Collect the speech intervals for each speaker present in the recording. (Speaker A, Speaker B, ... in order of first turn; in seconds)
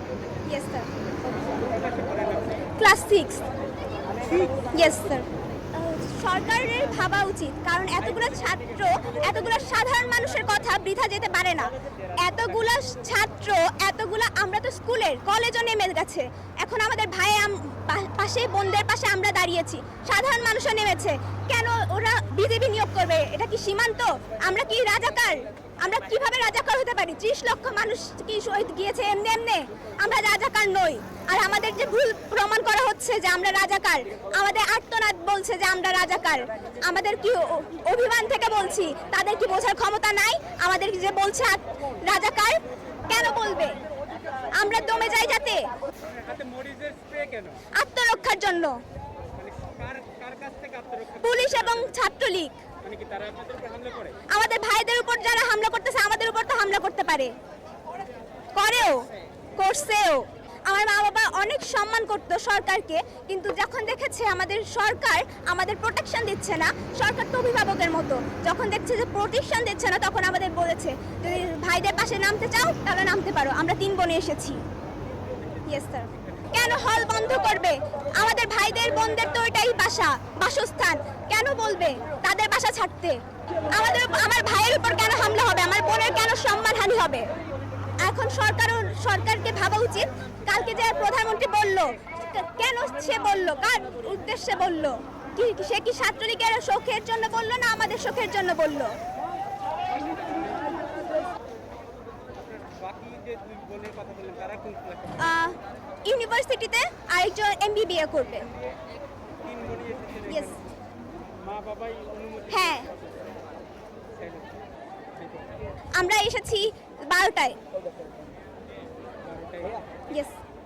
Speaker A: 0.5-0.9, 2.8-3.4, 4.7-43.8, 44.5-45.7, 47.7-48.8, 51.2-52.6, 54.3-57.3, 58.5-74.6, 75.7-87.3, 88.0-98.9, 105.2-108.5, 110.3-110.6, 112.5-112.9, 116.0-117.5, 120.1-120.4
Speaker B: 1.6-2.7, 4.2-4.5, 8.5-9.1, 46.0-47.6, 49.4-51.9, 52.8-54.2, 99.9-101.0, 102.3-105.2, 109.4-110.6, 111.3-113.1, 114.1-114.5, 115.2-115.5, 119.2-119.8